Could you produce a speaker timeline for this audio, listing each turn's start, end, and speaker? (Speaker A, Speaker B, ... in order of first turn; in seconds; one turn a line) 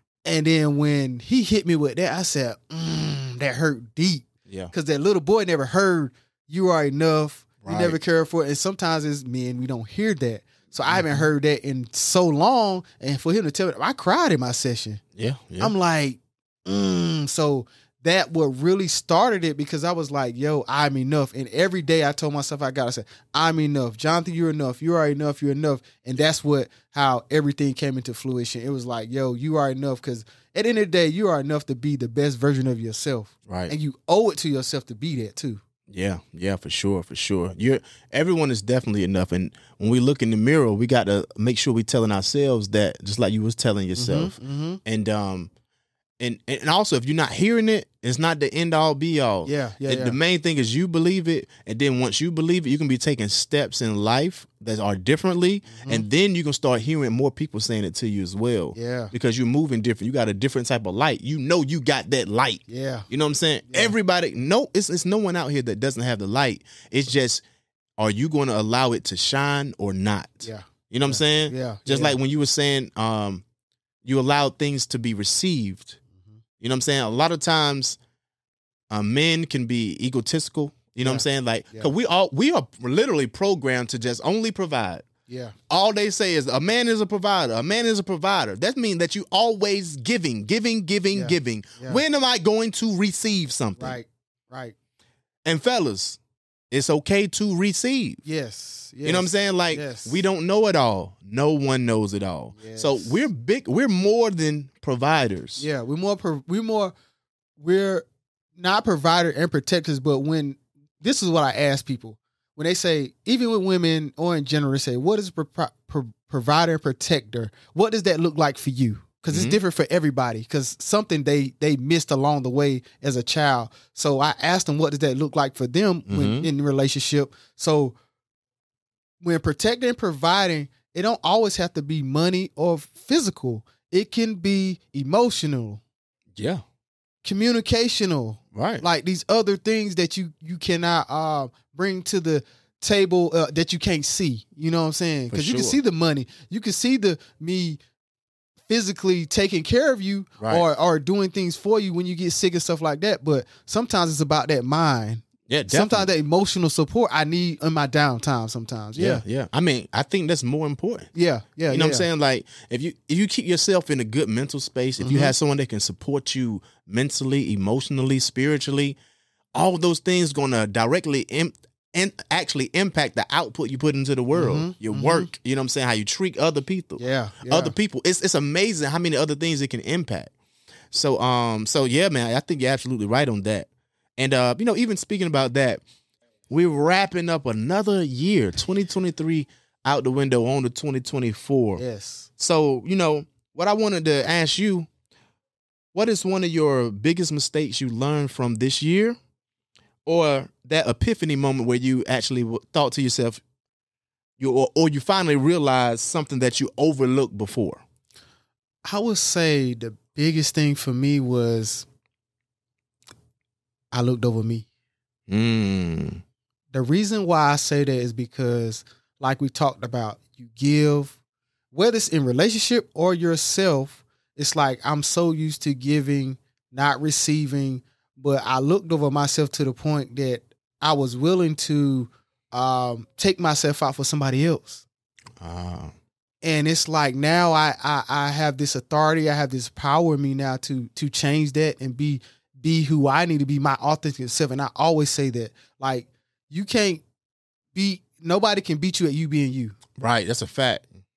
Speaker A: 0.2-15.0
Speaker B: 7.6-8.0
Speaker B: 10.9-11.2
Speaker B: 15.2-15.7
Speaker A: 15.6-35.6
Speaker B: 33.5-33.7
Speaker B: 35.9-45.5
Speaker A: 44.0-44.8
Speaker B: 46.2-67.4
Speaker A: 49.4-50.2
Speaker A: 55.7-56.1
Speaker A: 58.7-59.1
Speaker A: 62.7-63.1
Speaker A: 63.7-63.9
Speaker B: 68.0-73.4
Speaker A: 70.4-72.2
Speaker B: 74.0-76.0
Speaker B: 76.6-78.0
Speaker B: 78.9-85.0
Speaker A: 81.0-81.9
Speaker A: 85.3-85.5
Speaker B: 85.7-94.0
Speaker A: 91.1-92.0
Speaker A: 93.8-94.7
Speaker B: 95.5-96.2
Speaker B: 96.7-98.2
Speaker A: 98.2-100.2
Speaker B: 99.0-105.6
Speaker A: 102.6-103.2
Speaker A: 105.6-106.9
Speaker A: 107.6-108.0
Speaker A: 108.6-127.9
Speaker B: 119.3-119.6
Speaker B: 126.1-126.5
Speaker A: 129.2-135.8
Speaker B: 136.3-136.6
Speaker A: 137.2-147.8
Speaker B: 138.5-138.8
Speaker B: 145.3-145.8
Speaker A: 148.7-159.2
Speaker B: 155.5-156.1
Speaker B: 158.9-161.1
Speaker A: 161.1-162.1
Speaker B: 161.7-169.0
Speaker A: 165.0-165.3
Speaker B: 169.5-180.3
Speaker A: 174.3-175.3
Speaker A: 177.0-177.7
Speaker B: 180.9-185.8
Speaker B: 186.5-191.8
Speaker A: 191.8-192.3
Speaker B: 192.4-194.9
Speaker B: 195.9-199.2
Speaker B: 200.1-203.4
Speaker B: 204.4-207.8
Speaker A: 208.8-211.8
Speaker A: 213.9-214.7
Speaker B: 215.3-216.2
Speaker A: 216.7-221.2
Speaker A: 221.7-234.8
Speaker B: 235.4-235.9
Speaker A: 236.4-247.0
Speaker A: 247.7-249.8
Speaker B: 250.0-250.8